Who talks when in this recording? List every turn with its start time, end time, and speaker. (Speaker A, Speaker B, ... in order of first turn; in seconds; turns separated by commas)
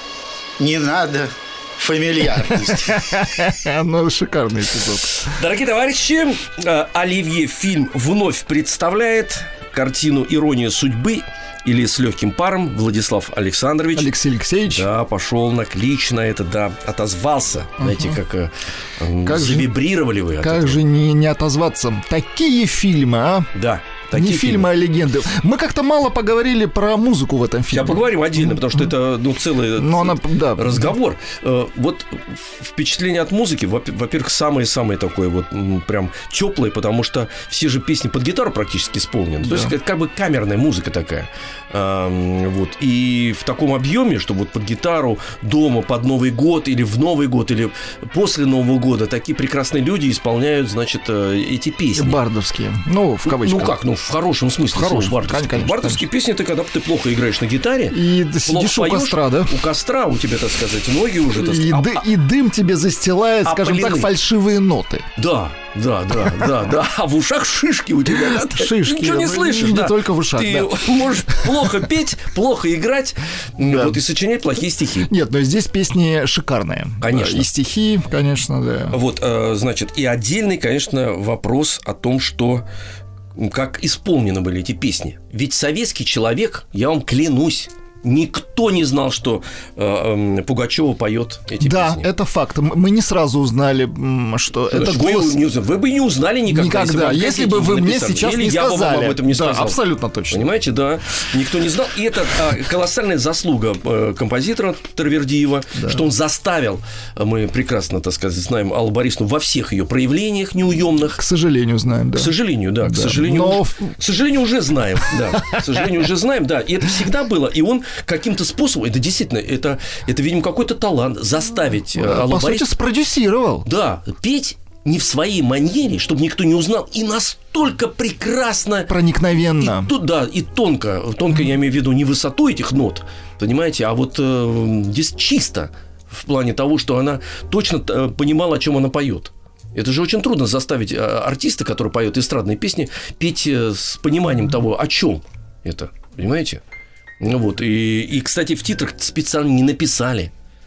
Speaker A: 0.6-3.0, Speaker B: 2.7-5.3, Speaker C: 5.3-14.1, Speaker B: 13.9-14.9, Speaker C: 14.7-20.8, Speaker B: 17.8-18.2, Speaker B: 19.2-19.7, Speaker B: 20.4-23.5, Speaker C: 23.6-24.7, Speaker B: 24.1-28.9, Speaker C: 27.7-52.2, Speaker B: 29.8-30.9, Speaker B: 39.4-39.7, Speaker B: 52.0-53.8, Speaker C: 53.2-62.1, Speaker B: 54.7-56.1, Speaker B: 57.9-59.5, Speaker B: 61.4-65.1, Speaker C: 63.5-64.1, Speaker C: 65.2-75.1, Speaker B: 68.1-71.6, Speaker B: 73.6-74.0, Speaker B: 75.1-79.0, Speaker C: 77.0-77.5, Speaker C: 78.9-82.7, Speaker C: 83.4-92.1, Speaker B: 91.6-95.4, Speaker C: 94.7-111.2, Speaker B: 96.5-100.5, Speaker B: 105.8-106.1, Speaker B: 111.2-114.0, Speaker C: 112.2-122.7, Speaker B: 115.3-115.7, Speaker B: 121.9-123.7, Speaker C: 123.7-128.9, Speaker B: 128.9-129.9, Speaker C: 129.6-146.6, Speaker C: 147.2-150.3